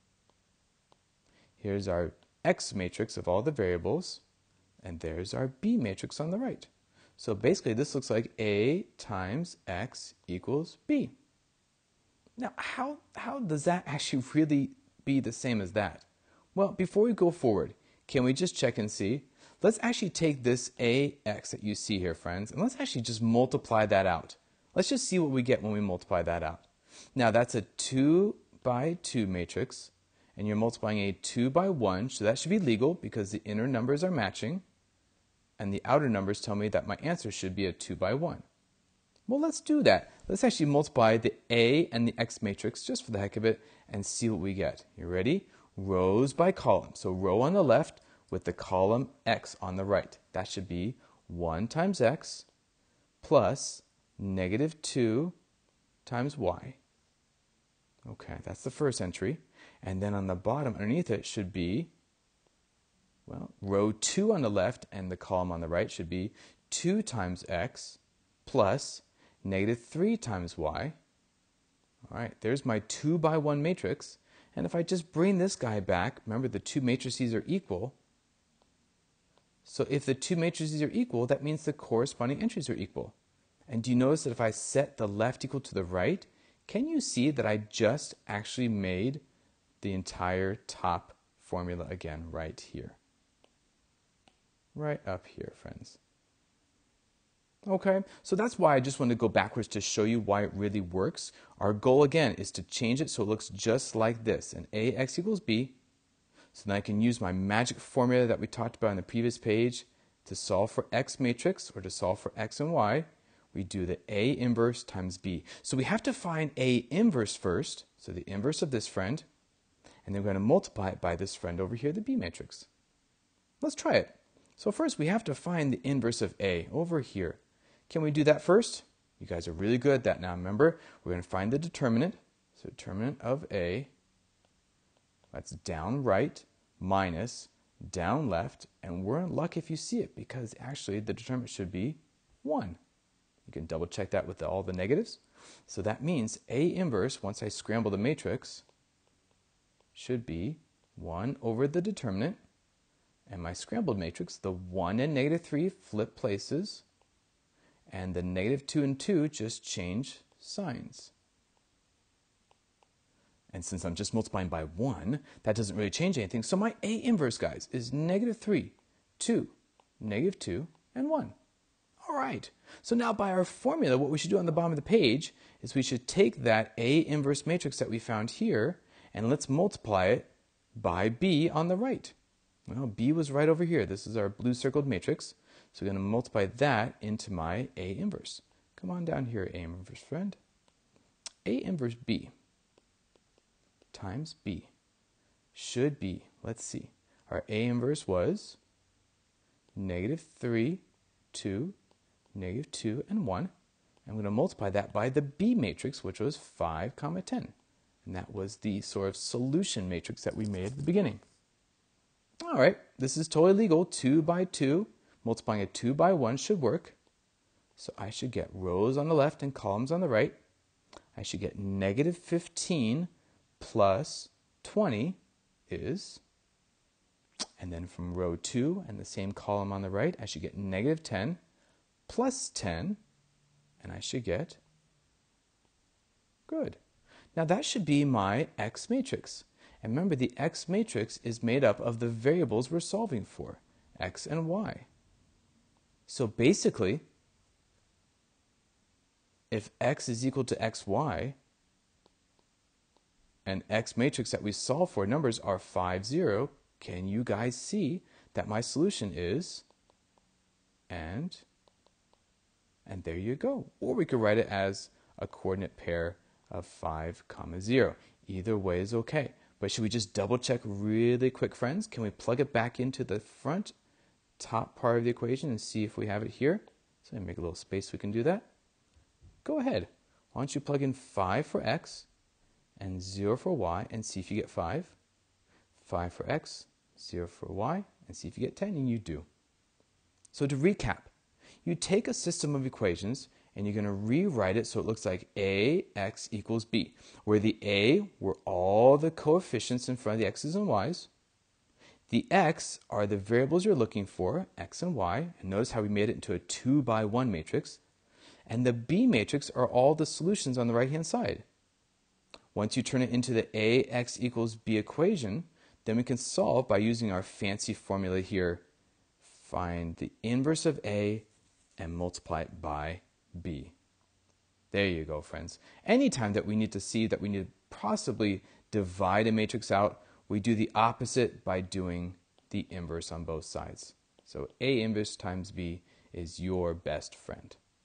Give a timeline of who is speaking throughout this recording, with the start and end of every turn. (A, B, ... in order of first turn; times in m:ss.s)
0:01.6-0:04.2 A
0:04.8-0:11.1 A
0:12.4-0:34.6 A
0:35.6-0:38.4 A
0:39.3-0:52.5 A
0:53.2-0:55.3 A
0:56.0-0:56.8 A
0:58.0-1:01.9 A
1:03.2-1:11.0 A
1:12.1-1:18.0 A
1:19.6-1:23.1 A
1:23.7-1:29.2 A
1:29.8-1:33.0 A
1:34.7-1:36.0 A
1:37.6-1:45.8 A
1:46.5-1:59.2 A
2:00.0-2:02.7 A
2:03.6-2:13.9 A
2:15.3-2:22.8 A
2:23.4-2:28.6 A
2:29.9-2:32.4 A
2:33.3-2:36.8 A
2:37.9-2:41.1 A
2:43.5-2:51.3 A
2:52.0-3:02.1 A
3:02.7-3:10.4 A
3:11.4-3:12.3 A
3:13.9-3:14.7 A
3:15.5-3:18.6 A
3:19.7-3:21.7 A
3:22.3-3:23.5 A
3:24.0-3:27.5 A
3:28.0-3:31.2 A
3:32.4-3:37.0 A
3:37.8-3:40.4 A
3:41.1-3:46.2 A
3:47.6-3:51.4 A
3:52.1-3:53.0 A
3:53.8-3:54.6 A
3:56.5-3:56.8 A
3:57.3-4:04.9 A
4:06.1-4:07.0 A
4:09.5-4:11.4 A
4:13.4-4:19.6 A
4:20.9-4:21.4 A
4:22.8-4:33.7 A
4:34.4-4:38.5 A
4:39.4-4:42.1 A
4:42.8-4:44.9 A
4:45.8-4:49.3 A
4:50.3-4:51.1 A
4:51.6-5:01.1 A
5:02.1-5:07.8 A
5:08.5-5:11.4 A
5:12.5-5:18.6 A
5:19.2-5:23.7 A
5:24.7-5:37.6 A